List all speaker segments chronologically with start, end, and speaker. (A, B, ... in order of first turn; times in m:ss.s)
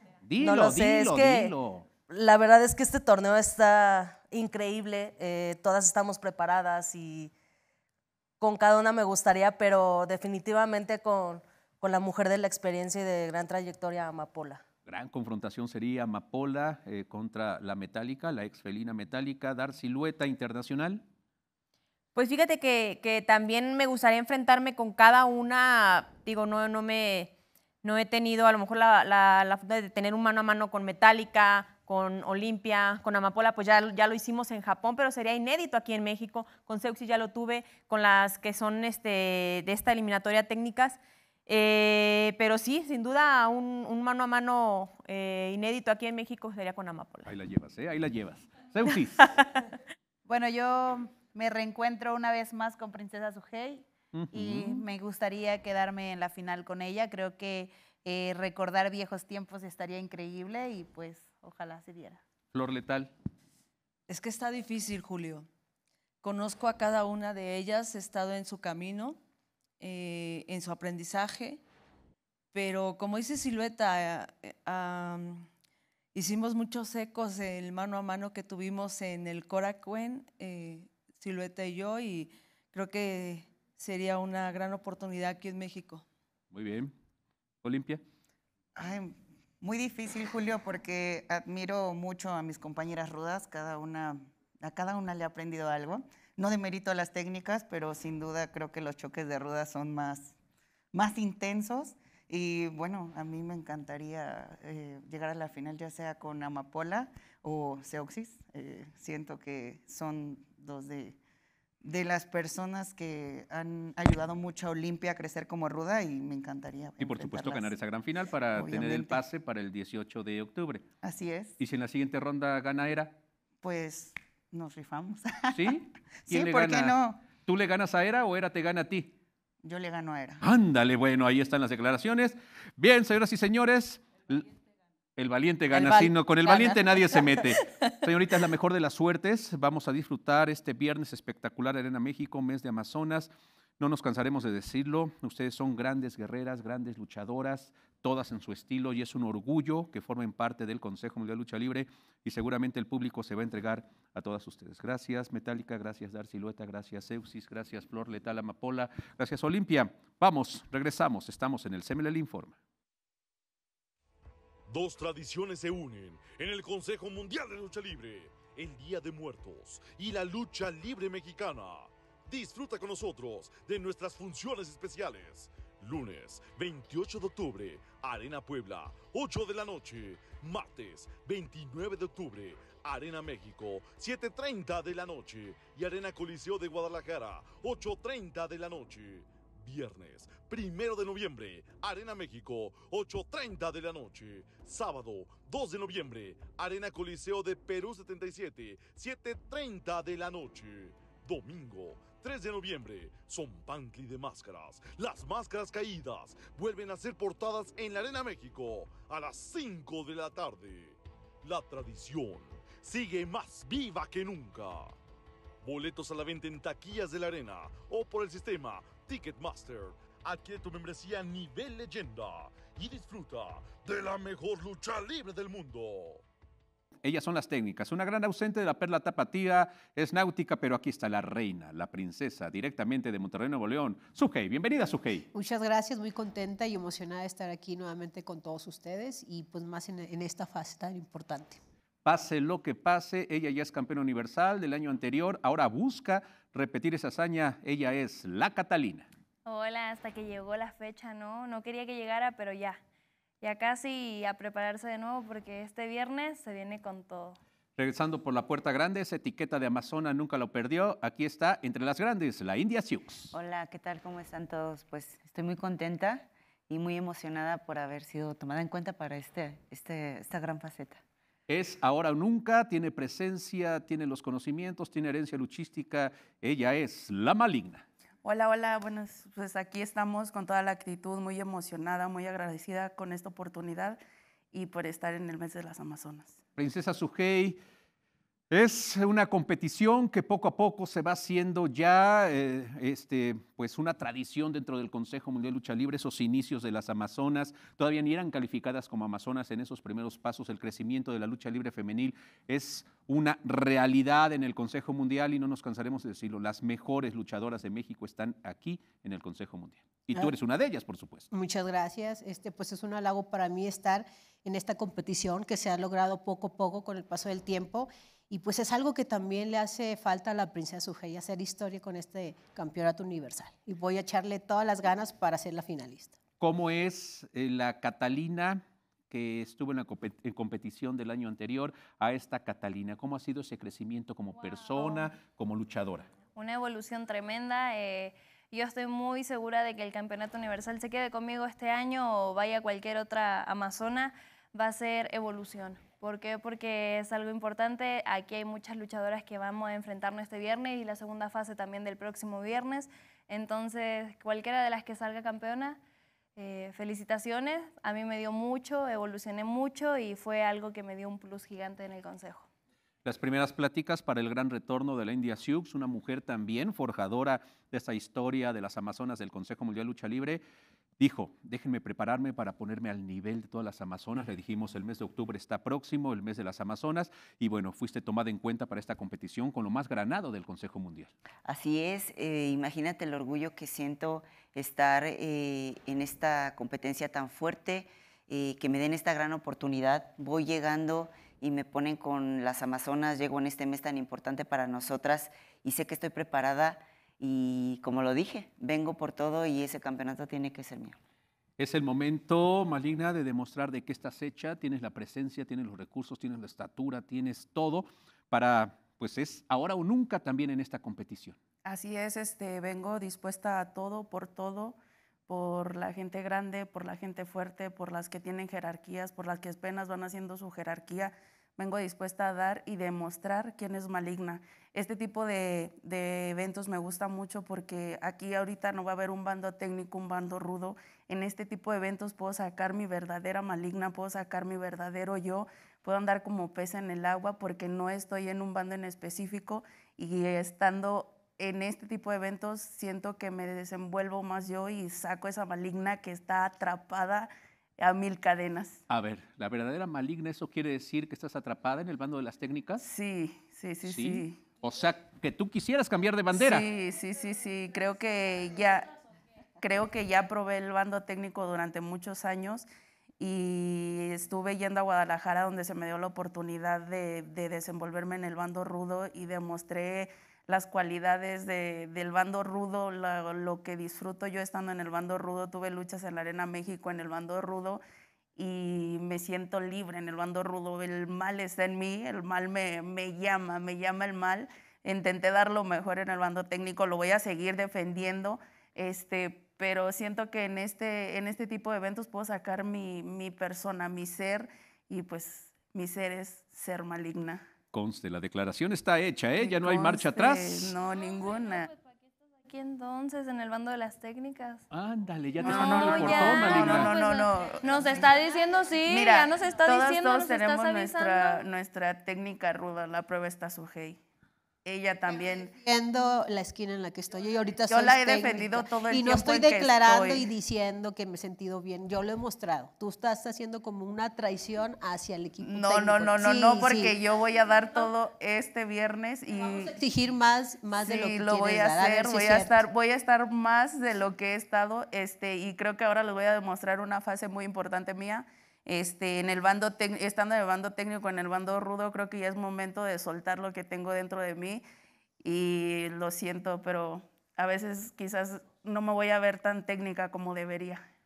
0:00.2-0:01.9 A
0:00.4-0:01.5 B
0:02.1-0:07.3 B
0:08.4-0:14.6 B
0:14.9-0:21.0 A
0:22.1-0:27.3 C
0:27.8-0:47.3 C
0:47.2-0:49.3 A
0:50.2-1:02.2 D
0:54.1-0:54.8 A
1:02.5-1:03.1 A
1:04.1-1:05.5 E
1:06.2-1:09.2 E
1:09.8-1:11.6 E
1:12.5-1:15.5 E
1:16.1-1:26.0 E
1:26.5-1:26.9 A
1:27.6-1:28.0 A
1:28.8-1:40.3 F
1:40.9-1:51.2 F
1:51.8-1:57.7 F
1:57.0-2:00.8 A
1:58.5-1:59.2 F
2:01.0-2:01.5 F
2:01.6-2:03.1 A
2:03.6-2:07.2 F
2:05.5-2:09.1 A
2:09.6-2:10.4 F
2:10.4-2:14.5 A
2:15.2-2:42.6 A
2:44.7-3:35.0 G
3:35.6-3:46.2 G
3:47.0-3:55.2 A
3:55.3-4:01.6 H
4:02.0-4:09.1 A
4:09.4-4:12.8 I
4:13.4-4:17.4 I
4:17.8-4:23.3 A
4:23.3-4:31.0 J
4:31.5-4:37.8 A
4:38.2-4:44.0 K
4:44.5-4:46.4 K
4:46.6-4:47.6 A
4:48.5-5:11.3 A
5:11.3-5:26.2 H
5:26.4-5:36.1 A
5:34.8-5:35.1 I
5:36.3-5:55.8 I
5:56.4-6:02.5 I
6:03.0-6:10.4 A
6:11.0-6:21.1 A
6:21.4-6:41.0 J
6:41.6-6:51.4 A
6:51.6-6:54.8 K
6:55.3-7:28.8 K
7:28.9-7:32.8 A
7:32.8-7:34.4 K
7:33.8-7:36.6 A
7:36.3-7:38.9 K
7:39.6-7:42.7 K
7:43.2-7:57.8 K
7:58.4-8:17.4 K
8:17.7-8:20.8 A
8:19.4-8:21.7 K
8:22.4-8:24.6 I
8:24.7-8:26.9 A
8:25.4-8:31.4 I
8:25.4-8:28.3 K
8:28.8-8:34.0 K
8:34.6-8:35.5 K
8:35.6-8:46.9 H
8:37.7-8:40.3 K
8:45.4-8:49.7 K
8:49.8-8:52.6 H
8:50.8-9:04.6 K
9:05.2-9:10.8 K